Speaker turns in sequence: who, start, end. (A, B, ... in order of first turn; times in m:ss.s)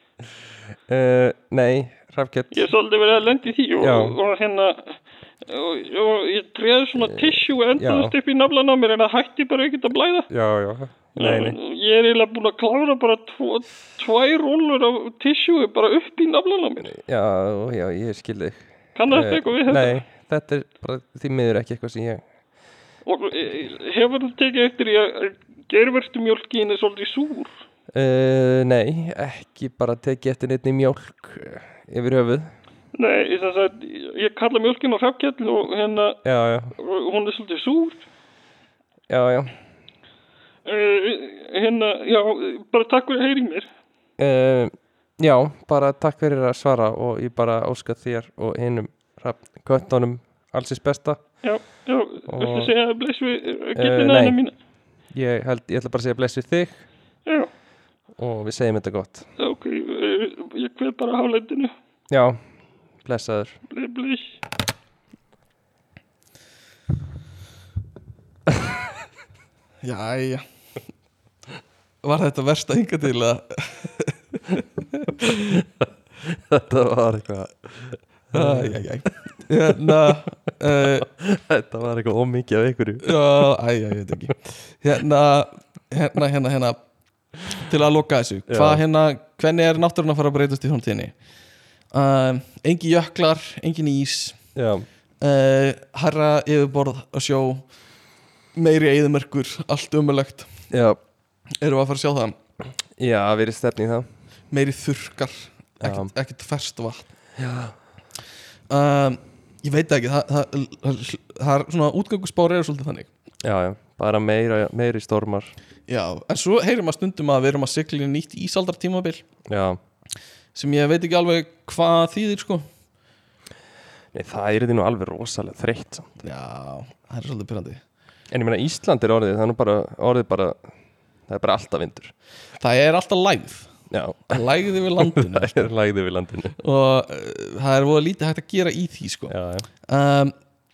0:00.9-0:02.7 A
0:02.5-0:10.3 B
0:03.8-0:04.2 A
0:07.0-0:08.2 A
0:10.3-0:11.6 A
0:11.2-0:16.9 B
0:16.8-0:22.2 A
0:19.0-0:20.0 B
0:23.0-0:27.6 B
0:27.9-0:32.5 A
0:33.0-0:36.2 B
0:36.2-0:36.7 A
0:36.7-0:38.0 B
0:39.1-0:39.5 A
0:40.7-0:43.7 B
0:44.2-0:51.4 A
0:51.4-0:54.5 B
0:52.3-0:52.7 A
0:53.8-0:54.4 A
0:55.1-0:56.8 A
0:58.2-0:59.3 A
0:59.4-1:01.7 B
1:02.1-1:02.4 A
1:03.0-1:03.6 A
1:03.7-1:04.4 B
1:09.8-1:10.5 C
1:12.0-1:15.6 C
1:15.6-1:18.8 A
1:18.3-1:21.1 C
1:19.7-1:20.2 A
1:20.8-1:23.2 A
1:23.0-1:26.8 C
1:27.5-1:31.1 C
1:28.5-1:28.8 A
1:31.9-1:34.4 C
1:34.6-1:34.9 A
1:35.2-1:37.7 C
1:38.6-1:40.6 C
1:40.7-1:41.0 A
1:41.6-1:42.4 C
1:43.0-1:44.1 A
1:44.5-1:47.1 C
1:45.8-1:46.1 A
1:47.4-1:47.8 A
1:48.7-1:53.1 C
1:53.4-1:55.5 A
1:55.9-1:59.2 C
1:59.5-1:59.8 A
2:00.6-2:02.7 C
2:04.1-2:06.2 A
2:06.2-2:07.8 C
2:08.3-2:10.7 A
2:11.3-2:12.1 A
2:12.6-2:13.7 C
2:13.9-2:16.6 A
2:14.3-2:15.7 C
2:16.6-2:19.3 C
2:19.3-2:19.7 A
2:19.9-2:20.4 C